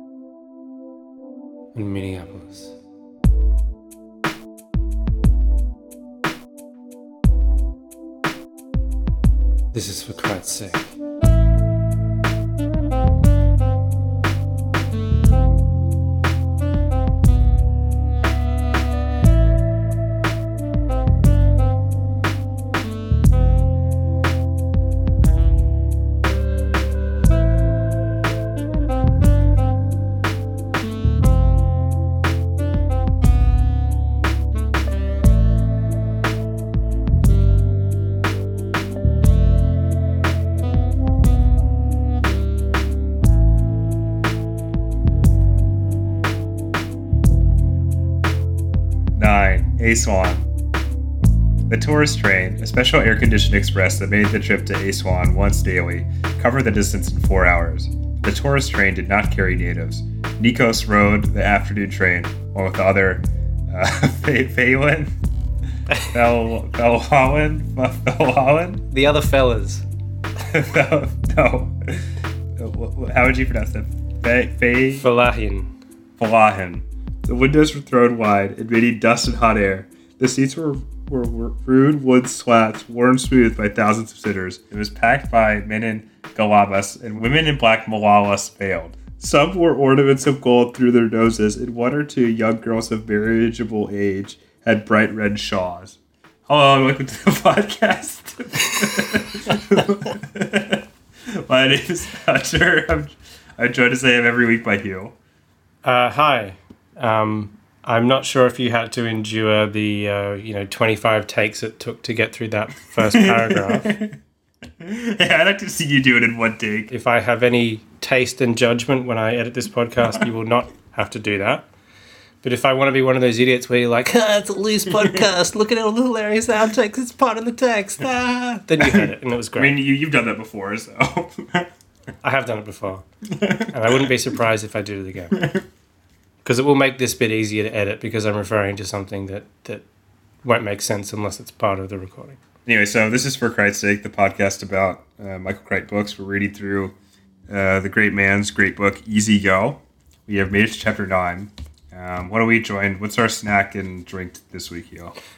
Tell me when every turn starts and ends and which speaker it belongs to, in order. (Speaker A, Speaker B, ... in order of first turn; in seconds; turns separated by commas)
Speaker A: 1.7-2.7, Speaker A: 9.7-10.9, Speaker B: 49.1-50.5, Speaker B: 51.7-65.1, Speaker B: 66.1-68.8, Speaker A: 68.9-69.8, Speaker B: 70.5-75.0, Speaker A: 75.0-75.7, Speaker B: 76.2-100.8, Speaker B: 101.4-105.2, Speaker A: 105.8-114.0, Speaker B: 113.0-114.2, Speaker B: 114.8-116.9, Speaker A: 116.9-121.7, Speaker A: 122.4-129.8, Speaker B: 128.8-131.7, Speaker A: 132.2-133.0, Speaker B: 133.3-134.1, Speaker A: 133.7-135.5, Speaker B: 135.3-135.6, Speaker A: 136.4-139.8, Speaker A: 140.4-142.4, Speaker B: 142.7-146.9, Speaker B: 147.5-155.2